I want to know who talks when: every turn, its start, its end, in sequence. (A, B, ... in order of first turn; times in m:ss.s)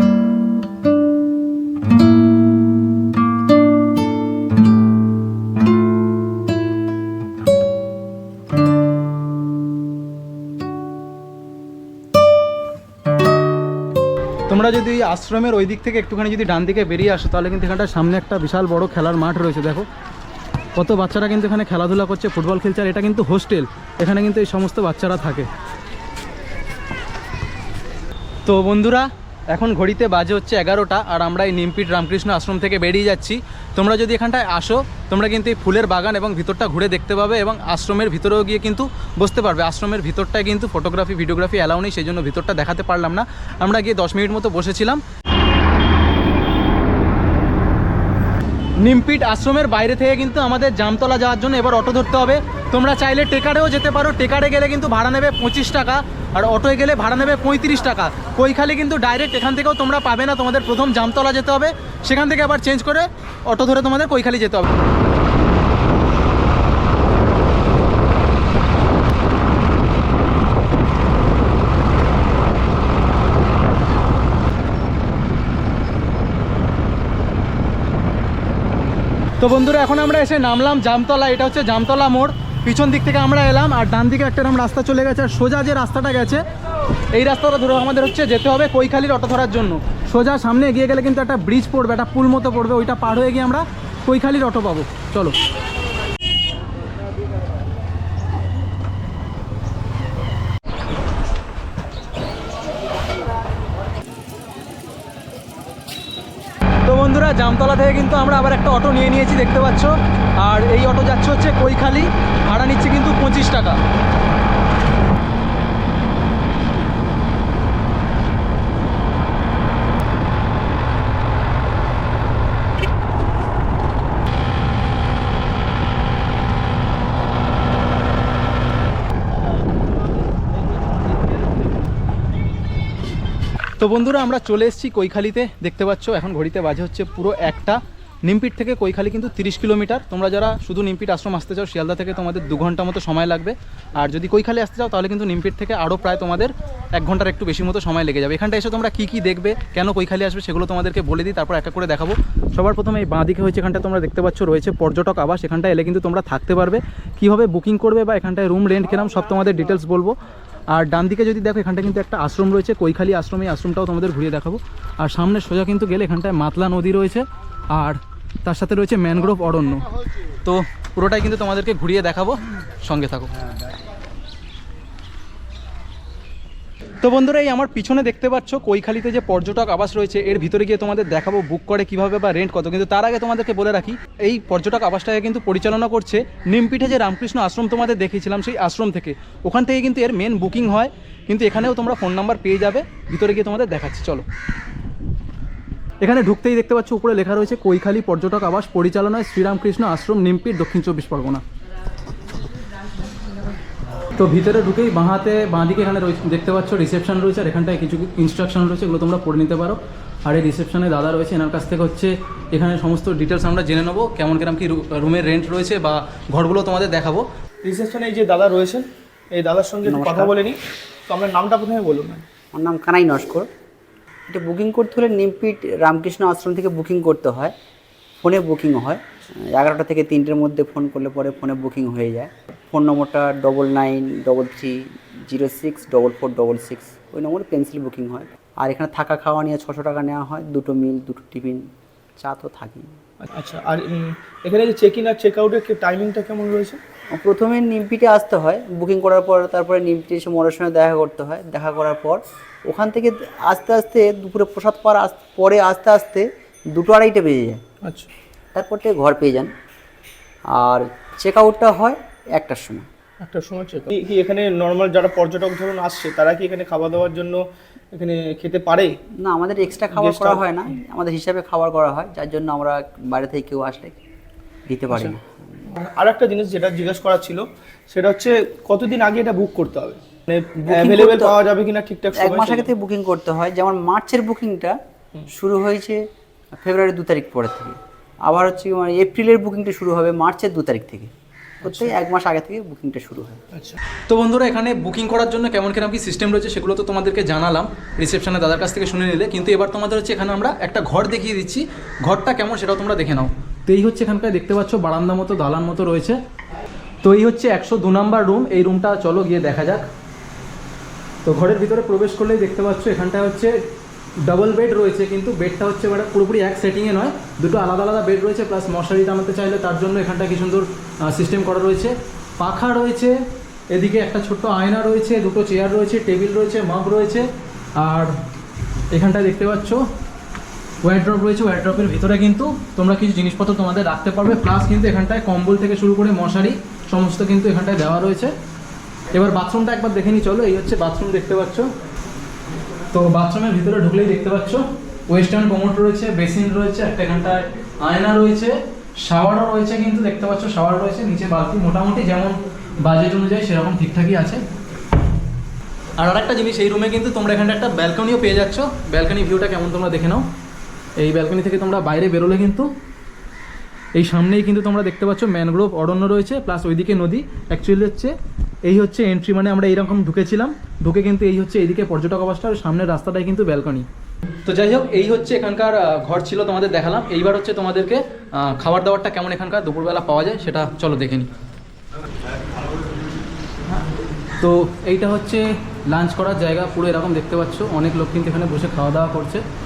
0:14.5-0:19.9 A
0:20.8-0:25.5 A
0:28.4-0:45.0 A
0:48.8-1:04.7 A
1:19.4-1:26.4 A
1:27.1-1:35.3 A
1:46.8-1:53.8 A
2:13.8-2:40.2 A
2:40.7-2:49.9 A
2:50.4-2:53.3 A
2:57.0-3:14.2 A
3:16.0-3:21.4 A
3:24.2-3:37.3 A
3:37.6-3:40.6 B
3:39.8-3:40.3 C
3:41.1-3:42.2 B
3:42.5-3:43.5 C
3:44.3-3:47.5 C
3:48.2-4:01.7 C
4:02.2-4:02.9 C
4:03.2-4:06.8 B
4:07.1-4:17.6 C
4:17.8-4:18.1 B
4:18.5-4:19.5 C
4:20.5-4:22.9 C
4:23.2-4:28.9 B
4:29.2-4:34.0 C
4:29.9-4:30.5 B
4:34.7-4:35.5 C
4:35.7-4:42.7 B
4:40.7-4:41.4 C
4:42.1-4:53.4 C
4:54.1-5:06.2 A
5:07.0-5:09.8 A
5:11.2-5:13.6 A
5:14.2-5:23.2 A
5:23.7-5:27.3 A
5:27.8-5:28.2 A
5:28.9-5:29.8 A
5:30.8-5:38.3 A
5:39.1-5:41.7 A
5:42.9-5:54.4 A
5:56.0-6:00.2 A
6:01.0-6:02.7 A
6:04.0-6:08.1 A
6:08.6-6:13.8 A
6:14.4-6:21.3 A
6:24.4-6:29.4 A